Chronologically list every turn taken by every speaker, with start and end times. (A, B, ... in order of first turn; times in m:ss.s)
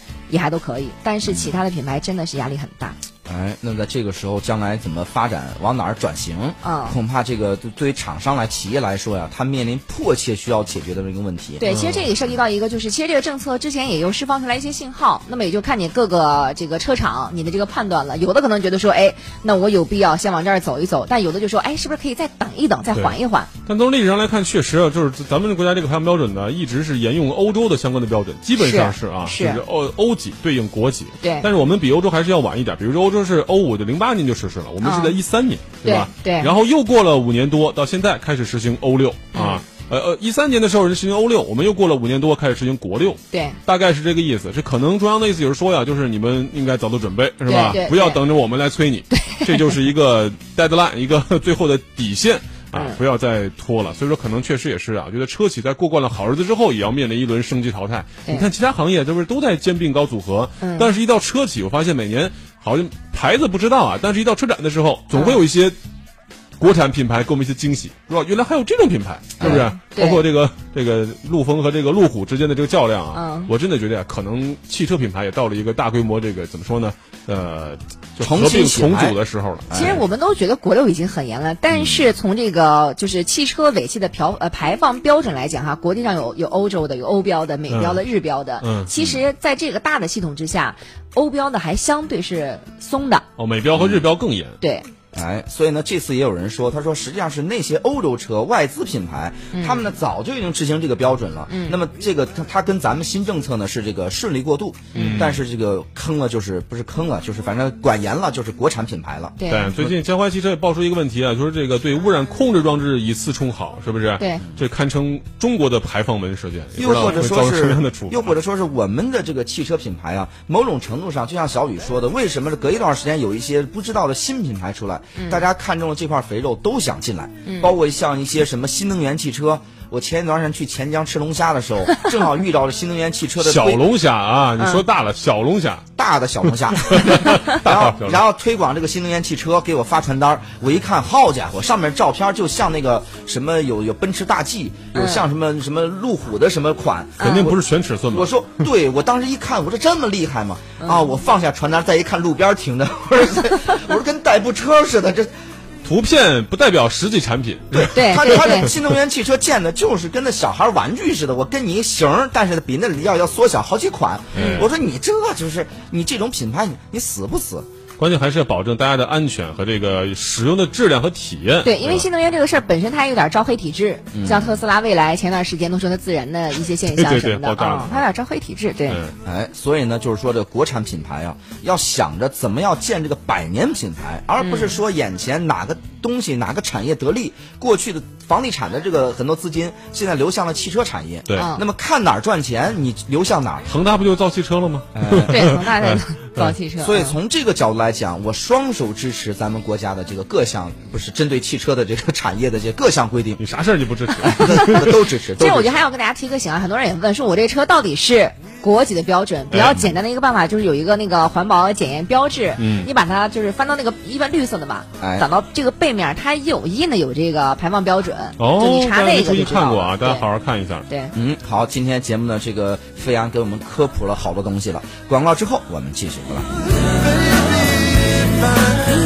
0:00.3-0:03.0 A
0:01.2-0:01.6 B
0:03.3-0:11.6 B
0:06.6-0:07.0 A
0:11.6-0:23.5 A
0:11.7-0:12.1 C
0:22.9-1:05.8 C
0:28.6-0:29.6 A
0:31.2-0:31.5 A
0:34.8-0:35.2 A
0:35.8-0:36.5 A
0:39.3-0:39.6 A
0:43.3-0:43.6 A
0:47.4-0:48.2 A
0:49.1-0:49.7 A
0:52.7-0:53.0 A
1:00.6-1:00.9 A
1:05.1-1:05.4 A
1:06.6-1:20.0 C
1:09.4-1:09.7 B
1:09.4-1:10.2 A
1:13.1-1:13.5 A
1:18.2-1:19.2 B
1:19.7-1:20.0 B
1:19.7-1:33.3 A
1:21.7-1:22.1 B
1:27.7-1:28.0 C
1:28.6-1:28.9 C
1:29.0-1:29.2 B
1:33.4-1:34.6 C
1:33.7-1:34.1 B
1:34.6-1:34.9 A
1:35.1-1:49.9 B
1:39.5-1:39.8 A
1:41.5-1:41.8 A
1:44.9-1:45.3 A
1:45.0-1:45.4 C
1:49.4-1:49.7 A
1:49.5-1:58.3 C
1:56.8-2:13.8 B
2:05.2-2:05.4 A
2:07.4-2:07.7 A
2:13.4-2:15.8 C
2:16.0-2:35.3 B
2:16.4-2:18.2 C
2:24.9-2:25.3 A
2:27.2-2:27.5 A
2:27.2-2:28.7 C
2:30.8-2:31.1 A
2:35.8-2:38.7 C
2:37.7-2:47.7 B
2:37.9-2:38.7 A
2:44.3-2:44.7 C
2:44.4-2:44.6 A
2:48.0-2:52.1 C
2:51.6-2:59.0 A
2:54.1-2:54.6 B
2:57.0-2:58.0 C
2:58.9-2:59.2 C
2:59.2-3:13.7 B
3:04.4-3:04.8 A
3:11.4-3:11.6 A
3:13.7-3:16.5 C
3:15.0-3:15.4 B
3:15.3-3:17.2 A
3:16.8-3:23.4 B
3:23.4-3:25.0 C
3:24.2-3:24.8 A
3:24.3-3:25.8 B
3:25.4-3:40.2 A
3:29.5-3:29.8 C
3:32.6-3:32.9 C
3:35.0-3:35.3 B
3:38.4-3:40.8 C
3:40.9-3:41.1 A
3:41.1-3:46.6 B